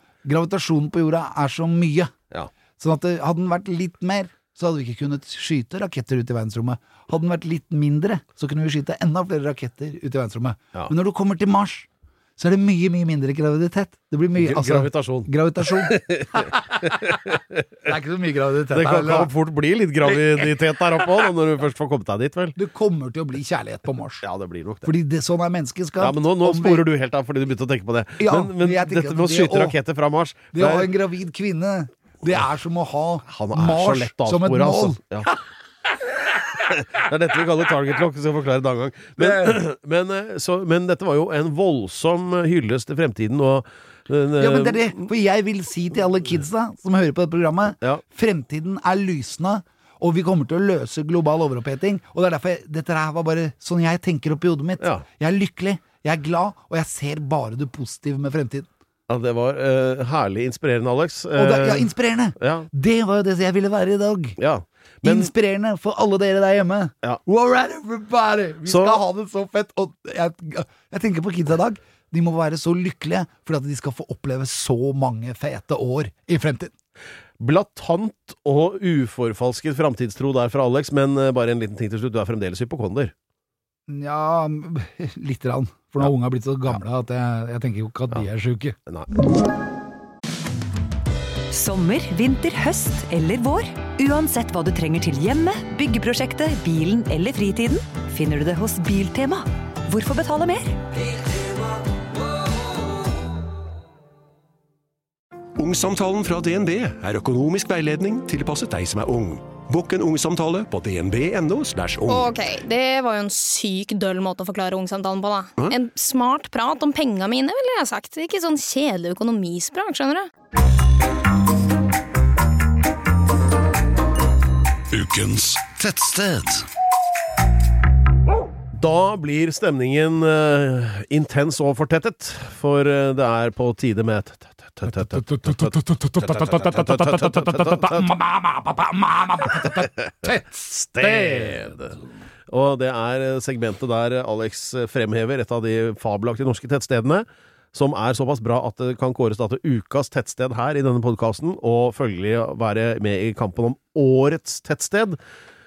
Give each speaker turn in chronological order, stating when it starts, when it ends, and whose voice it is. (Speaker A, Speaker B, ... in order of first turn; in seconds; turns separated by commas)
Speaker A: 0.2-2.1, Speaker A: 2.8-17.1, Speaker B: 14.3-17.6, Speaker A: 17.8-19.3, Speaker B: 18.7-22.6, Speaker A: 20.0-20.5, Speaker A: 22.6-24.2, Speaker B: 24.2-24.9, Speaker A: 24.8-26.8, Speaker B: 26.0-30.9, Speaker A: 28.2-29.8, Speaker A: 30.5-35.3, Speaker B: 33.3-35.3, Speaker B: 36.6-45.0, Speaker A: 39.2-39.6, Speaker A: 44.4-58.7, Speaker B: 54.8-55.0, Speaker B: 59.1-62.7, Speaker A: 61.3-64.4, Speaker B: 64.4-65.3, Speaker A: 65.0-76.7, Speaker B: 68.6-69.0, Speaker B: 77.4-83.1, Speaker A: 83.9-88.8, Speaker C: 91.5-100.8, Speaker D: 105.6-112.3, Speaker E: 112.1-120.3, Speaker D: 124.9-126.7, Speaker B: 128.7-138.1, Speaker A: 134.9-141.9, Speaker B: 139.6-142.0, Speaker B: 142.5-155.2